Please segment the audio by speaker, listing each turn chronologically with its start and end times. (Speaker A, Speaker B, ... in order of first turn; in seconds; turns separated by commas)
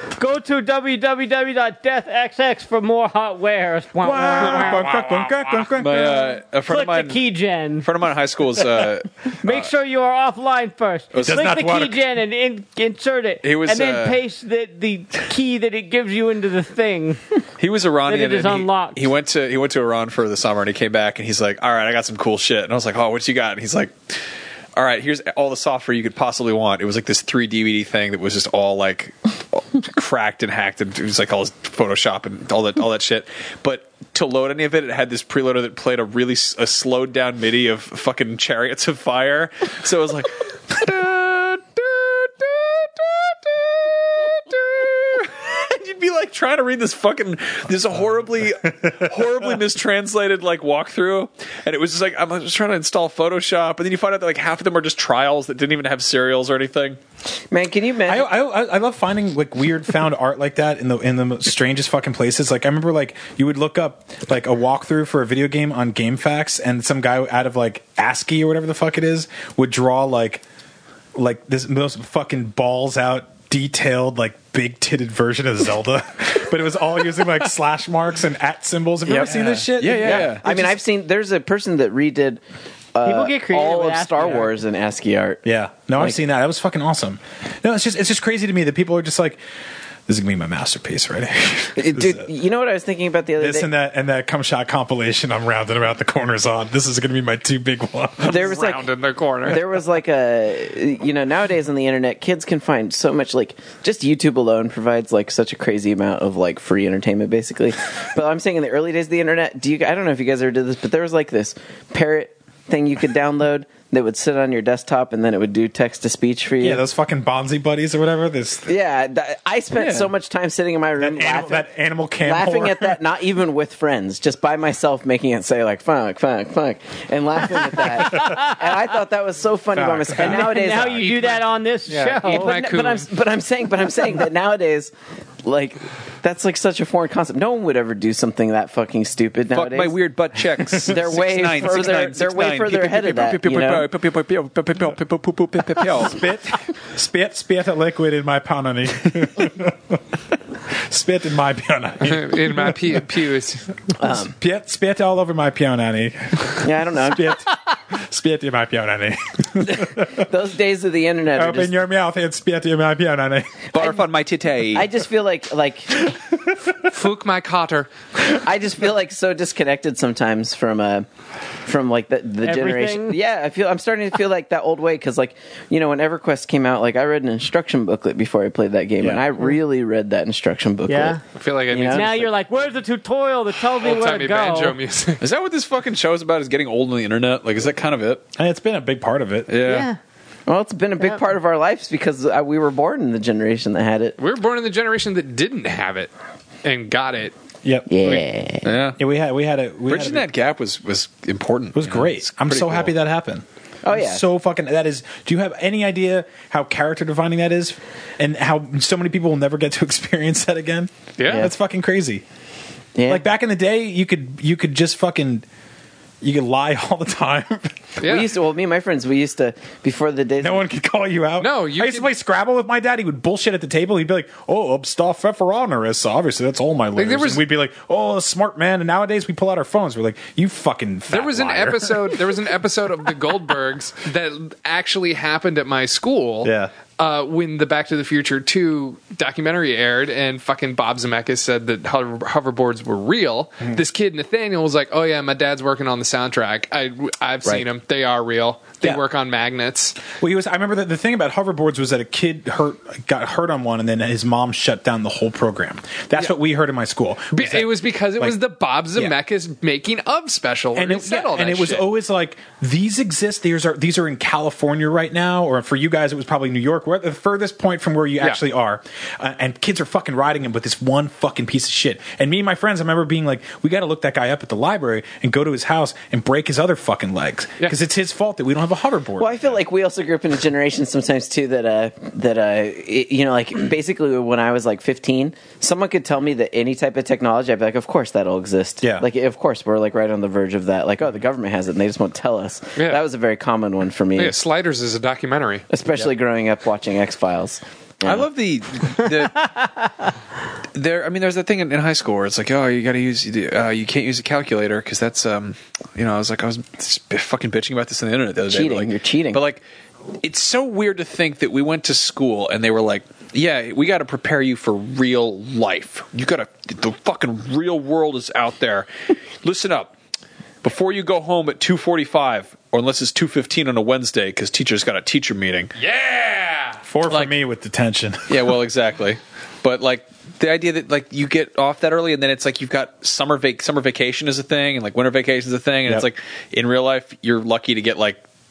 Speaker A: 0.1-4.9, Speaker B: 4.0-6.2, Speaker C: 5.7-7.2, Speaker A: 5.9-7.9, Speaker C: 7.8-9.7, Speaker A: 9.4-17.2, Speaker C: 11.1-11.4, Speaker B: 11.1-12.0, Speaker C: 13.4-14.2, Speaker C: 17.6-23.9, Speaker A: 18.0-19.1, Speaker C: 24.8-57.0, Speaker D: 57.5-58.3, Speaker B: 58.0-70.4, Speaker B: 71.1-80.8, Speaker D: 79.1-82.4, Speaker C: 79.4-80.4, Speaker D: 82.9-85.4, Speaker A: 83.0-84.5, Speaker B: 85.4-89.4, Speaker B: 90.1-92.3, Speaker D: 91.8-93.7, Speaker B: 93.4-98.5, Speaker E: 98.2-99.7, Speaker D: 98.2-98.9, Speaker D: 99.4-116.8, Speaker B: 116.6-118.7, Speaker D: 118.7-121.7, Speaker C: 119.8-120.1, Speaker B: 121.0-123.0, Speaker D: 122.2-131.1, Speaker B: 129.7-130.5, Speaker A: 130.1-132.6, Speaker E: 131.0-133.1, Speaker D: 132.2-134.9, Speaker D: 135.4-139.9, Speaker C: 139.5-146.2, Speaker D: 140.8-143.9, Speaker B: 145.9-150.0, Speaker B: 150.7-153.0, Speaker E: 152.0-153.7, Speaker D: 154.0-154.3, Speaker B: 154.1-160.3, Speaker D: 156.6-157.4, Speaker D: 160.0-161.8, Speaker B: 161.3-163.7, Speaker C: 163.7-164.9, Speaker D: 164.7-166.1, Speaker B: 166.1-166.7, Speaker E: 166.8-167.9, Speaker D: 168.3-171.1, Speaker D: 171.6-182.2, Speaker A: 172.4-173.2, Speaker A: 180.9-181.2, Speaker E: 181.3-182.4, Speaker A: 181.9-184.8, Speaker E: 183.7-185.2, Speaker C: 185.2-188.2, Speaker B: 188.3-189.5, Speaker C: 189.5-189.9, Speaker A: 189.6-190.0, Speaker D: 190.5-194.2, Speaker E: 194.2-196.1, Speaker E: 196.6-197.3, Speaker B: 197.6-198.2, Speaker D: 197.9-198.7, Speaker C: 198.6-199.0, Speaker B: 199.0-200.3, Speaker C: 199.9-202.9, Speaker B: 201.7-212.2, Speaker D: 203.8-204.2, Speaker E: 211.2-211.5, Speaker D: 212.9-213.2, Speaker B: 213.1-215.4, Speaker B: 216.2-218.0, Speaker E: 218.0-218.3, Speaker D: 218.0-220.6, Speaker B: 220.4-232.3, Speaker E: 221.4-222.1, Speaker E: 226.9-227.4, Speaker E: 231.1-250.0, Speaker B: 236.4-236.7, Speaker B: 250.1-258.4, Speaker E: 257.3-261.9, Speaker B: 260.7-279.6, Speaker D: 279.2-294.4, Speaker B: 288.8-289.1, Speaker E: 292.8-293.0, Speaker E: 294.1-295.7, Speaker D: 295.7-298.2, Speaker C: 298.0-299.5, Speaker C: 300.7-309.6, Speaker D: 308.5-309.4, Speaker C: 310.2-318.9, Speaker C: 319.4-319.9, Speaker C: 320.6-325.7, Speaker E: 325.8-326.8, Speaker B: 326.8-328.6, Speaker C: 327.1-327.4, Speaker C: 328.3-338.2